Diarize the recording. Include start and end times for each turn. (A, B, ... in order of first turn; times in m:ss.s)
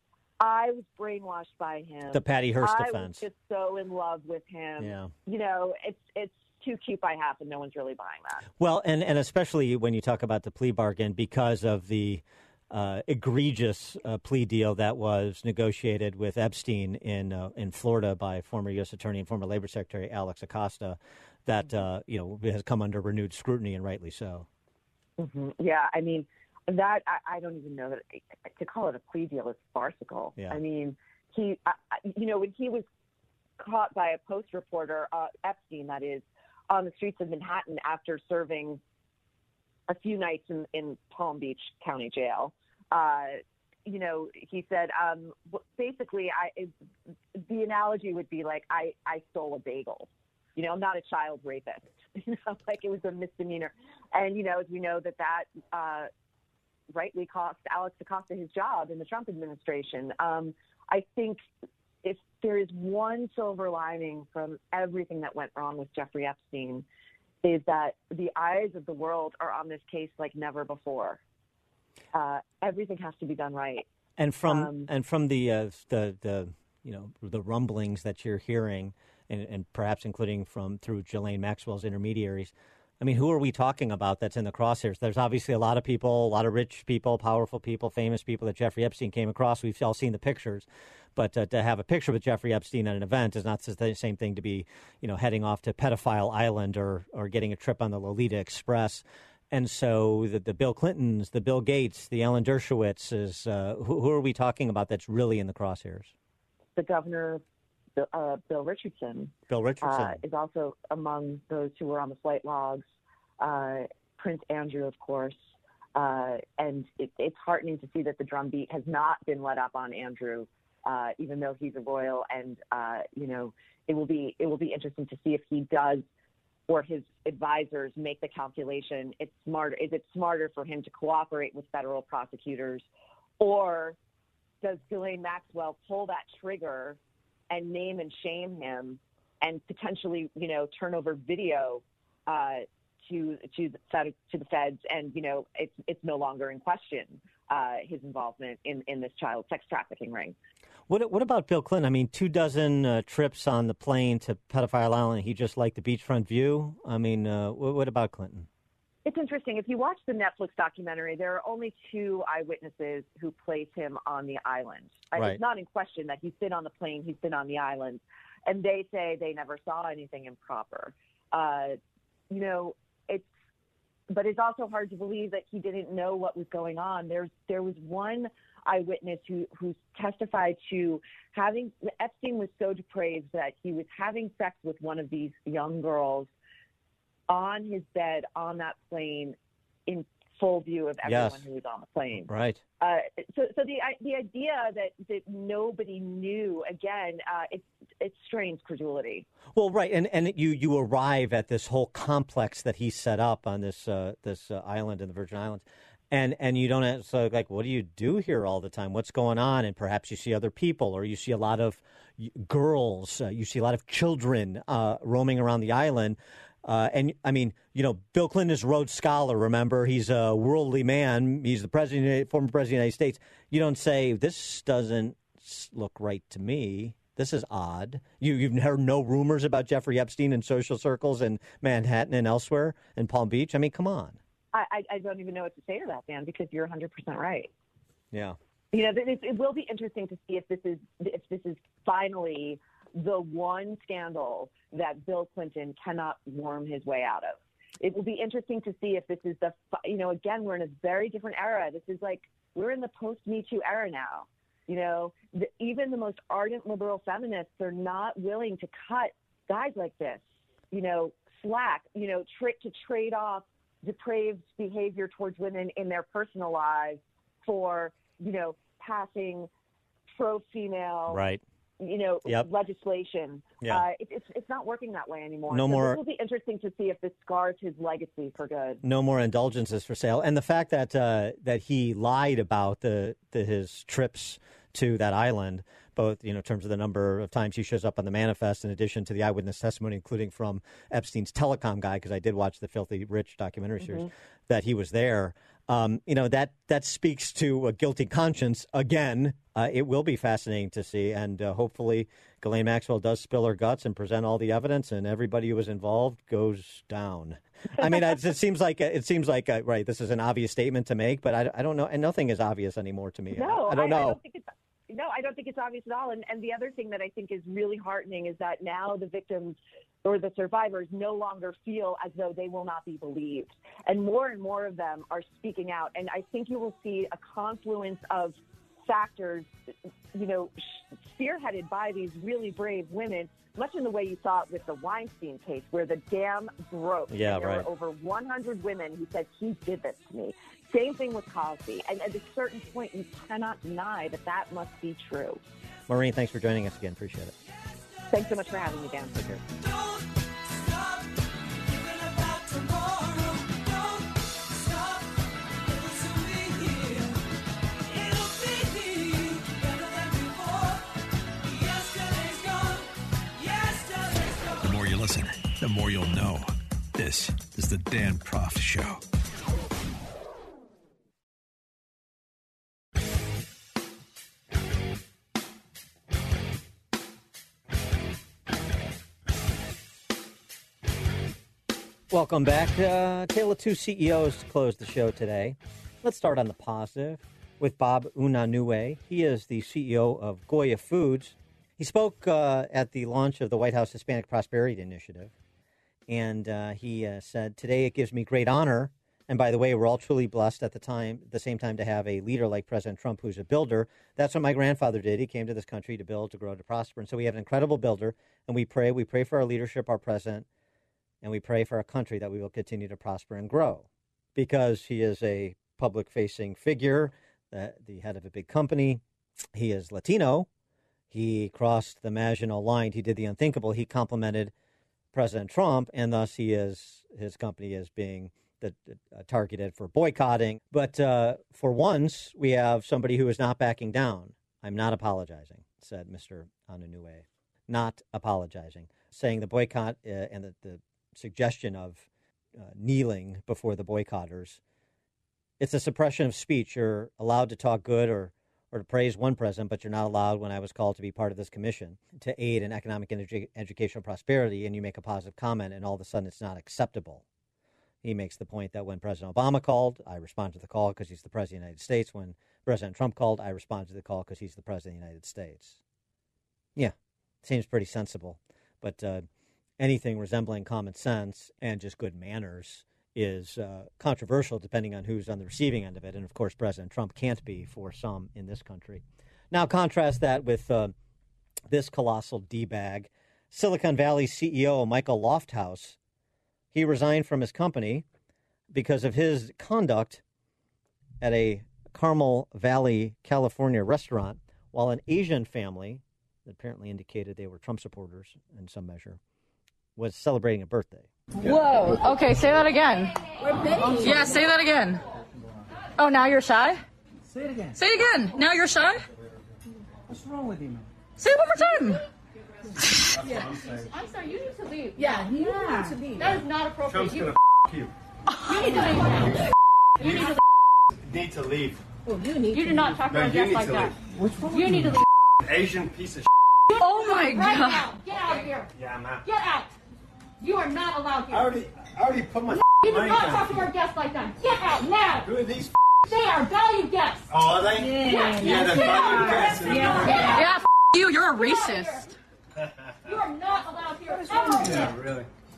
0:00.4-0:08.4 A
0:02.1-0:03.2 B
0:04.8-0:05.1 B
0:08.6-0:24.5 B
0:25.2-0:32.8 A
0:33.6-0:38.8 A
0:39.9-0:46.7 A
0:47.4-0:56.1 A
0:56.9-1:01.4 A
1:02.0-1:06.8 A
1:07.4-1:11.2 A
1:12.1-1:13.8 A
1:14.2-1:46.1 B
1:14.4-1:14.9 A
1:46.8-1:47.4 A
1:48.0-1:52.8 A
1:49.5-1:50.2 B
1:53.4-1:55.4 A
1:56.0-2:06.0 A
2:06.7-2:12.8 A
2:13.4-2:14.0 A
2:14.6-2:17.0 A
2:17.5-2:30.4 A
2:30.9-2:38.5 B
2:39.1-2:51.8 A
2:45.2-2:45.4 B
2:52.3-2:53.3 A
2:54.1-3:06.3 A
3:07.3-3:09.4 A
3:09.9-3:12.3 A
3:11.0-3:11.4 B
3:12.3-3:12.6 B
3:12.8-3:19.3 A
3:19.5-3:54.2 B
3:54.5-3:57.5 A
3:58.1-3:58.4 B
3:58.7-4:29.5 A
4:30.1-4:31.2 A
4:31.1-4:31.4 B
4:31.8-4:38.8 A
4:35.5-4:36.0 B
4:38.8-5:14.2 B
4:53.8-4:54.1 A
5:13.3-5:29.5 A
5:30.1-5:45.4 A
5:37.1-5:37.7 B
5:45.9-5:47.3 B
5:48.1-5:49.4 A
5:51.9-5:53.7 C
5:55.8-5:57.1 C
5:58.0-6:00.7 C
6:01.6-6:02.8 C
6:03.4-6:04.4 C
6:04.6-6:09.0 D
6:22.1-6:35.3 B
6:36.1-6:50.5 B
6:51.2-6:59.0 B
6:59.6-7:00.5 B
7:01.1-7:04.5 B
7:05.1-7:24.6 B
7:25.6-7:37.2 B
7:38.0-7:45.8 B
7:46.8-7:49.3 B
7:49.8-8:00.9 B
8:01.7-8:06.0 B
8:06.7-8:08.0 B
8:08.7-8:10.2 B
8:11.2-8:19.2 B
8:20.0-8:21.1 B
8:21.5-8:23.1 E
8:23.8-8:25.0 E
8:26.0-8:26.8 E
8:27.8-8:29.0 E
8:30.1-8:30.8 C
8:31.2-8:32.0 E
8:33.4-8:33.8 B
8:33.9-8:37.3 E
8:38.5-8:39.4 E
8:41.1-8:41.8 B
8:42.4-8:44.0 E
8:44.5-8:45.0 E
8:45.5-8:46.1 C
8:46.7-8:48.7 E
8:48.8-8:49.2 B
8:49.2-8:49.7 E
8:50.4-8:51.5 E
8:51.3-8:53.4 B
8:52.8-8:55.3 E
8:55.2-8:55.7 B
8:56.1-8:57.3 E
8:57.4-8:57.9 C
8:57.6-9:00.2 B
8:58.1-9:02.0 E
8:59.8-9:00.2 C
9:03.1-9:04.9 E
9:04.8-9:05.3 B